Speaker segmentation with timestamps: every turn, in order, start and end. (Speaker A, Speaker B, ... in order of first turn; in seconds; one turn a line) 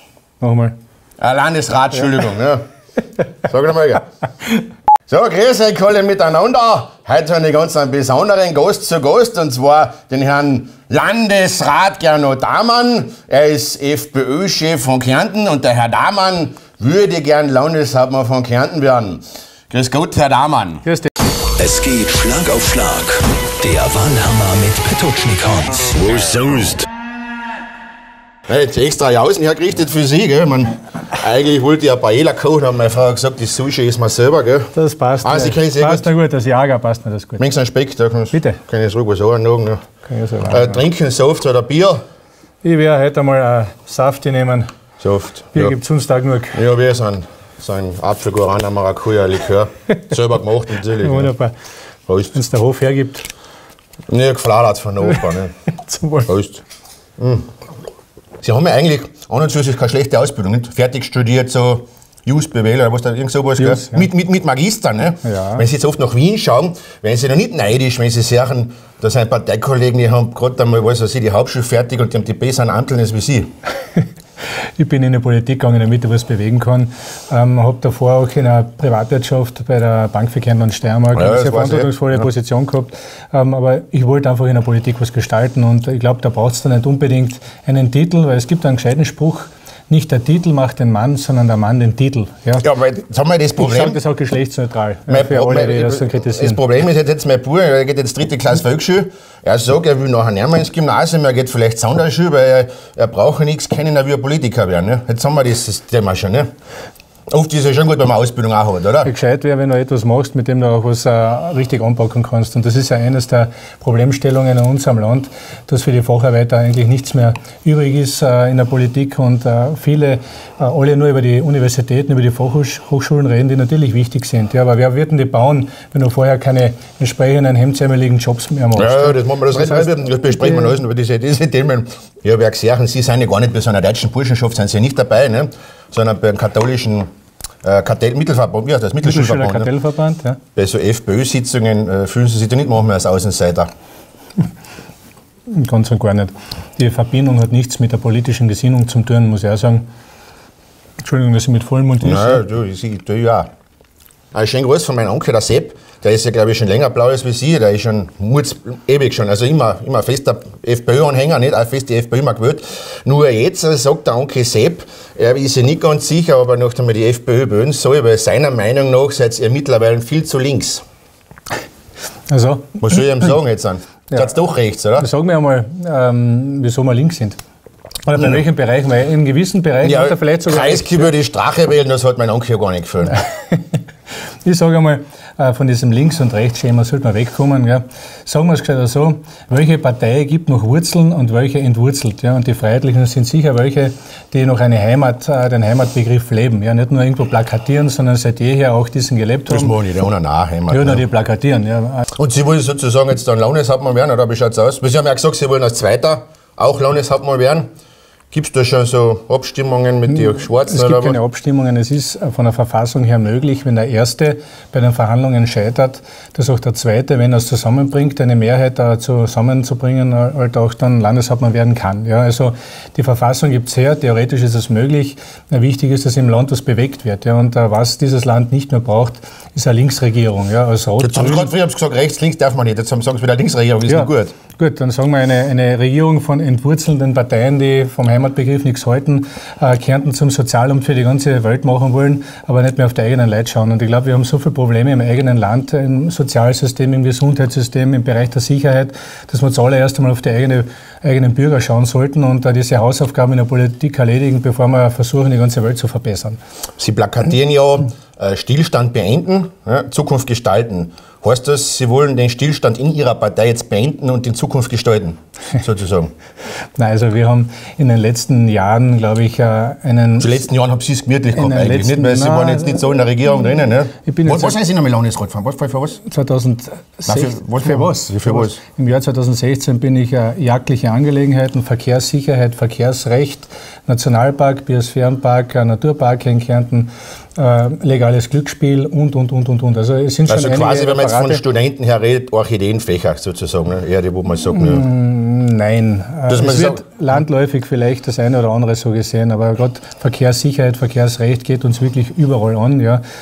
Speaker A: 0.4-0.8
Speaker B: 1.2-2.6
Speaker B: 3.4-4.0
Speaker B: 5.1-20.9
Speaker A: 20.9-21.1
Speaker C: 21.6-26.7
Speaker B: 26.0-26.9
Speaker B: 28.5-36.1
Speaker A: 34.7-37.4
Speaker B: 37.4-39.8
Speaker A: 38.3-38.6
Speaker A: 40.0-40.8
Speaker B: 40.5-42.0
Speaker A: 42.6-44.7
Speaker B: 45.0-45.8
Speaker A: 45.5-46.6
Speaker B: 46.5-51.3
Speaker A: 51.0-51.5
Speaker B: 52.1-52.4
Speaker A: 52.3-53.3
Speaker B: 54.1-55.5
Speaker A: 55.0-56.3
Speaker B: 56.3-56.6
Speaker B: 57.2-57.5
Speaker B: 58.4-73.5
Speaker A: 63.6-64.1
Speaker A: 65.2-65.6
Speaker A: 74.8-92.7
Speaker B: 81.1-82.3
Speaker B: 92.6-94.0
Speaker A: 93.6-96.6
Speaker B: 95.1-106.5
Speaker B: 107.3-109.1
Speaker A: 109.0-130.8
Speaker B: 128.8-137.1
Speaker B: 137.6-139.7
Speaker A: 139.0-140.4
Speaker B: 140.6-143.7
Speaker A: 145.5-149.8
Speaker A: 151.0-152.4
Speaker B: 152.0-153.5
Speaker B: 154.3-170.8
Speaker A: 172.3-173.1
Speaker B: 172.8-175.1
Speaker A: 175.0-177.4
Speaker A: 178.1-181.1
Speaker B: 179.8-183.2
Speaker A: 183.1-183.8
Speaker A: 184.4-199.8
Speaker B: 199.5-201.0
Speaker A: 200.7-202.1
Speaker B: 202.2-207.7
Speaker B: 208.3-211.2
Speaker A: 210.1-231.5
Speaker B: 231.0-234.3
Speaker A: 233.9-256.4
Speaker B: 256.8-266.1
Speaker A: 266.8-270.4
Speaker B: 270.2-276.0
Speaker A: 271.4-272.9
Speaker A: 274.0-274.6
Speaker A: 276.0-291.4
Speaker B: 277.1-278.6
Speaker B: 290.3-294.9
Speaker A: 294.5-303.0
Speaker B: 296.3-296.8